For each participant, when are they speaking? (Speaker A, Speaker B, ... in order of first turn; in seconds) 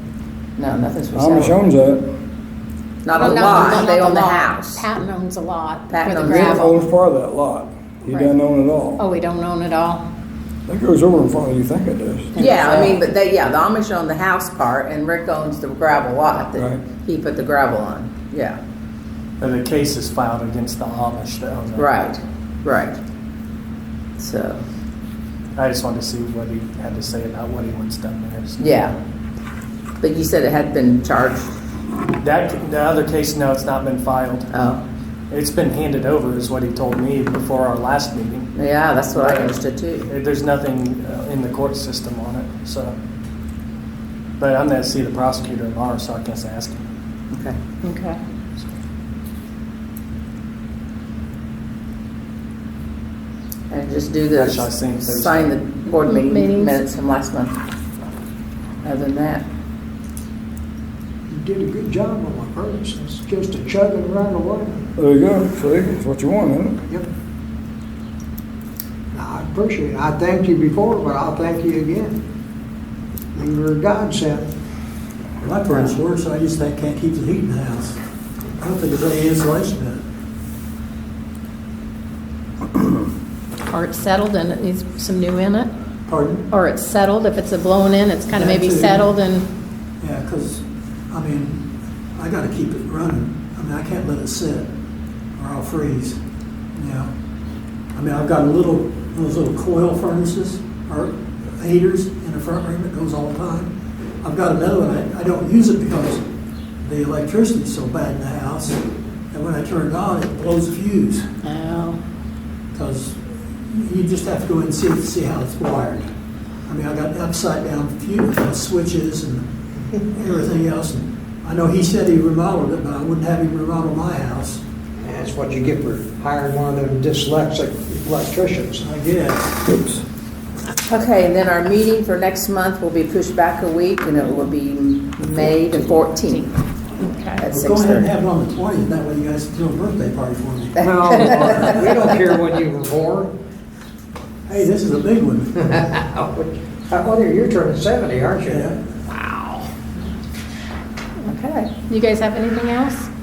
Speaker A: 0.6-1.6, 3.0-4.8, 5.9-6.6, 12.4-18.6, 21.8-23.0, 24.2-24.6, 28.6-29.0, 30.0-31.5, 34.5-34.8, 38.5-40.1, 47.3-47.6, 53.7-57.5, 58.8-59.5, 75.7-76.0, 130.9-136.5, 137.4-138.1, 140.8-141.9
Speaker B: 1.1-2.1, 6.3-9.0, 10.7-12.3, 65.0-66.8
Speaker C: 3.1-6.8, 9.0-10.0, 12.3-13.0, 47.8-48.2, 56.1-56.8, 83.7-85.7, 86.5-89.5, 111.4-112.0, 137.0-137.5, 151.2-153.1
Speaker D: 12.7-13.0, 19.4-22.0, 25.6-28.8, 32.2-34.5, 35.3-38.5, 39.1-43.0, 44.4-46.9, 54.4-55.6
Speaker E: 61.3-64.9, 69.1-72.2, 73.3-74.5, 125.0-128.9, 140.8-143.3, 145.7-148.7
Speaker F: 75.4-78.0, 78.6-80.0, 86.1-86.5, 88.3-89.1, 90.0-91.7, 92.2-94.7, 95.4-96.2, 96.8-97.1, 98.0-103.7, 104.2-106.2, 106.8-111.3, 112.7-116.1, 116.7-119.5, 120.0-124.6, 128.8-129.7, 135.3-135.6, 137.5-140.8, 144.5-145.6, 148.5-148.8